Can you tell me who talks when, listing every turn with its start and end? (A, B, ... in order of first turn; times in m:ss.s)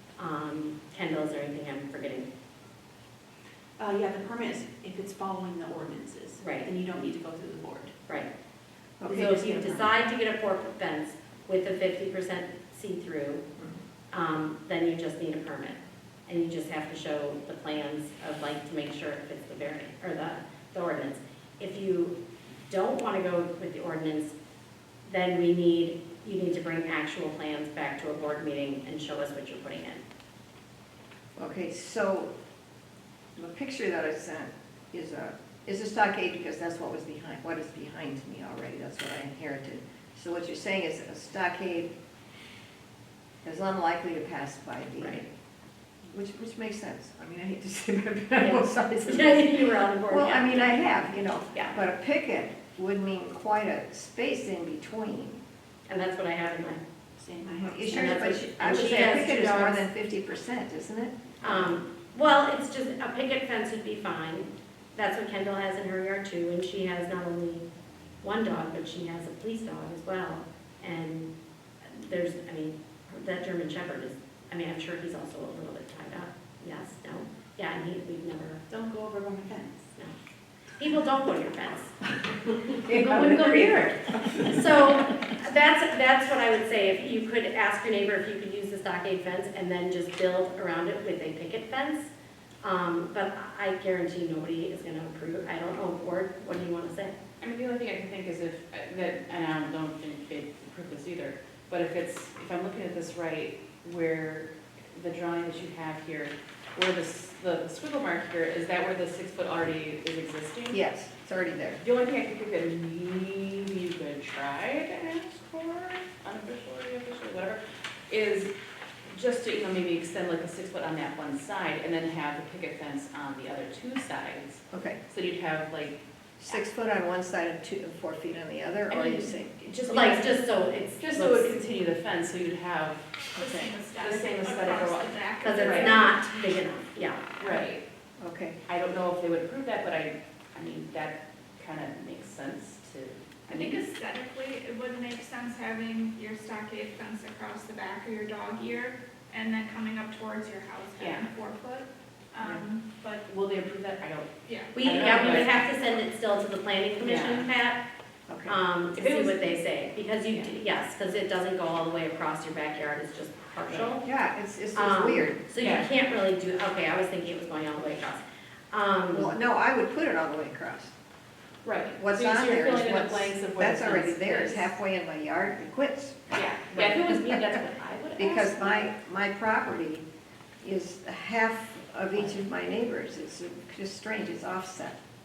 0:00.2-0:02.3 A
0:03.8-0:07.9 B
0:06.4-0:06.7 A
0:09.0-0:09.3 C
0:09.0-0:09.9 B
0:09.0-0:13.4 A
0:14.1-0:22.2 A
0:22.7-0:24.4 A
0:25.0-0:30.0 A
0:31.4-0:32.3 C
0:33.4-0:41.9 C
0:43.4-0:45.3 C
0:46.1-0:55.4 C
0:48.4-0:50.8 A
0:55.9-0:56.8 A
0:57.2-0:58.2 B
0:57.4-1:01.7 C
0:57.8-0:59.9 A
1:01.4-1:07.6 A
1:08.2-1:11.3 A
1:11.8-1:18.6 A
1:18.7-1:19.8 D
1:20.7-1:22.0 A
1:22.6-1:24.6 C
1:22.8-1:37.2 A
1:37.4-1:50.8 D
1:50.7-1:51.8 C
1:51.8-1:58.5 D
1:59.1-2:06.0 D
2:04.7-2:05.0 C
2:06.4-2:09.6 C
2:08.9-2:10.3 D
2:09.9-2:11.6 A
2:11.0-2:13.1 D
2:13.3-2:16.2 E
2:13.4-2:13.7 C
2:14.0-2:16.1 D
2:15.4-2:17.2 A
2:17.4-2:17.8 D
2:18.2-2:18.6 C
2:18.7-2:23.8 D
2:23.5-2:33.2 E
2:31.0-2:31.3 D
2:33.2-2:35.6 D
2:34.4-2:35.6 E
2:34.7-2:37.8 A
2:37.0-2:37.5 D
2:38.3-2:38.6 C
2:38.4-2:44.0 A
2:39.0-2:39.6 D
2:44.0-2:45.4 C
2:44.7-2:49.3 A
2:45.6-2:45.9 D
2:49.1-2:50.9 C
2:51.6-2:54.8 D
2:52.0-2:57.5 C
2:56.3-2:58.6 D
2:58.2-3:00.0 C
3:00.6-3:05.0 C